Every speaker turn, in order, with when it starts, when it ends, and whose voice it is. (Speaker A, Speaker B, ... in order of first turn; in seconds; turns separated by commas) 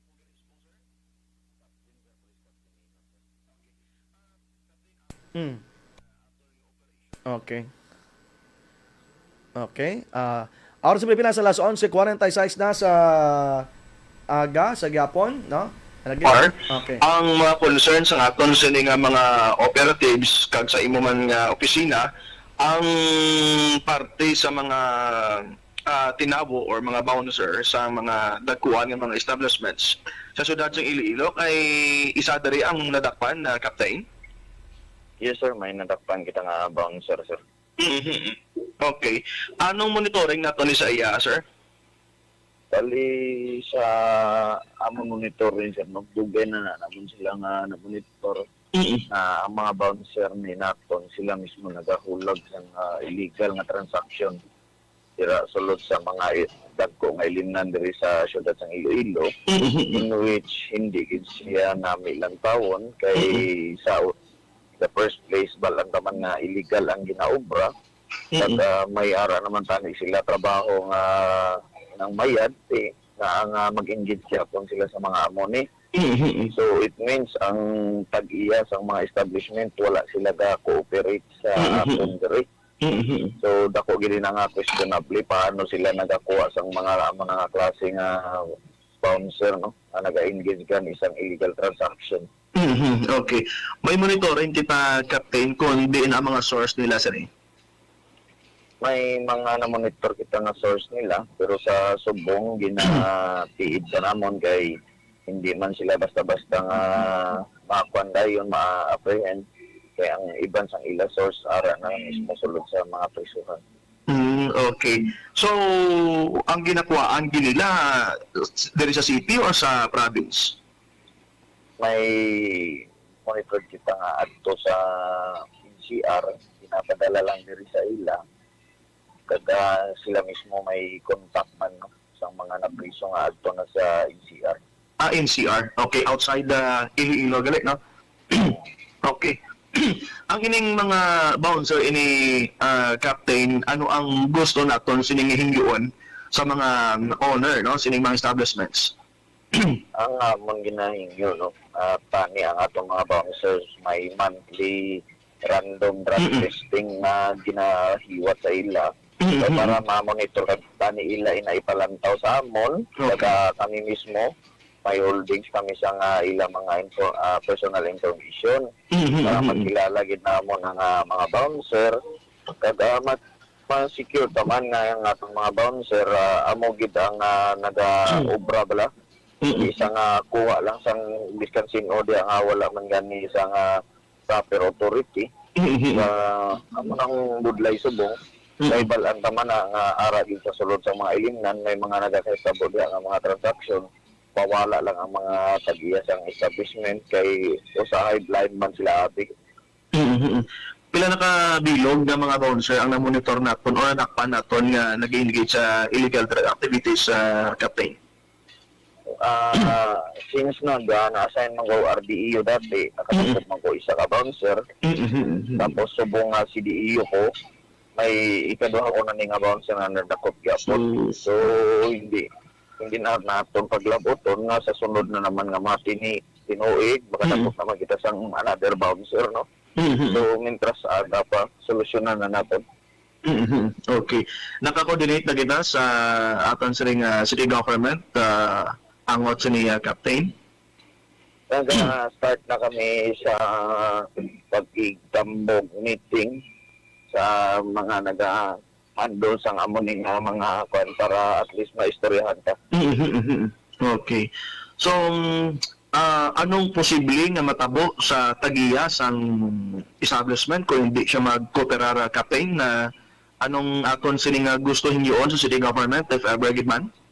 Speaker A: 5.3-5.6, Speaker A: 7.3-7.7, Speaker A: 9.6-13.7, Speaker A: 14.3-17.0, Speaker B: 16.2-22.1, Speaker B: 22.6-34.0, Speaker C: 35.2-37.4, Speaker B: 37.8-41.4, Speaker C: 42.7-48.4, Speaker B: 48.8-49.0, Speaker C: 49.1-54.4, Speaker C: 55.2-59.3, Speaker B: 59.5-60.0, Speaker C: 59.9-64.1, Speaker B: 63.2-63.4, Speaker C: 64.8-67.7, Speaker B: 68.3-68.6, Speaker C: 68.4-75.6, Speaker B: 76.0-76.5, Speaker C: 76.5-82.4, Speaker B: 81.6-82.1, Speaker B: 82.8-83.3, Speaker C: 83.4-88.4, Speaker C: 89.0-92.3, Speaker B: 92.5-97.3, Speaker C: 98.8-104.7, Speaker C: 105.3-109.4, Speaker C: 110.0-113.6, Speaker B: 114.1-120.5, Speaker C: 121.8-128.2, Speaker C: 129.3-134.6, Speaker B: 135.0-137.8, Speaker B: 138.3-148.9, Speaker C: 149.9-164.3, Speaker B: 156.2-156.5, Speaker B: 159.2-159.8, Speaker B: 163.0-163.3, Speaker C: 164.8-168.7, Speaker B: 168.9-169.7, Speaker C: 169.2-171.9, Speaker C: 172.6-173.2, Speaker C: 173.7-178.9, Speaker B: 179.4-179.7, Speaker C: 179.5-183.7, Speaker C: 184.3-185.3, Speaker B: 185.6-186.1, Speaker C: 185.9-199.3, Speaker B: 188.6-188.9, Speaker B: 199.9-207.9, Speaker C: 209.2-214.6, Speaker B: 214.8-215.8, Speaker C: 215.6-217.3, Speaker C: 218.0-222.2, Speaker B: 220.6-221.2, Speaker C: 222.8-229.4, Speaker B: 227.2-227.5, Speaker B: 229.8-230.2, Speaker C: 230.1-232.6, Speaker B: 233.2-240.3, Speaker C: 241.5-246.4, Speaker C: 247.1-248.4, Speaker C: 249.0-252.6, Speaker B: 252.7-254.3, Speaker B: 254.8-262.9, Speaker B: 263.4-266.9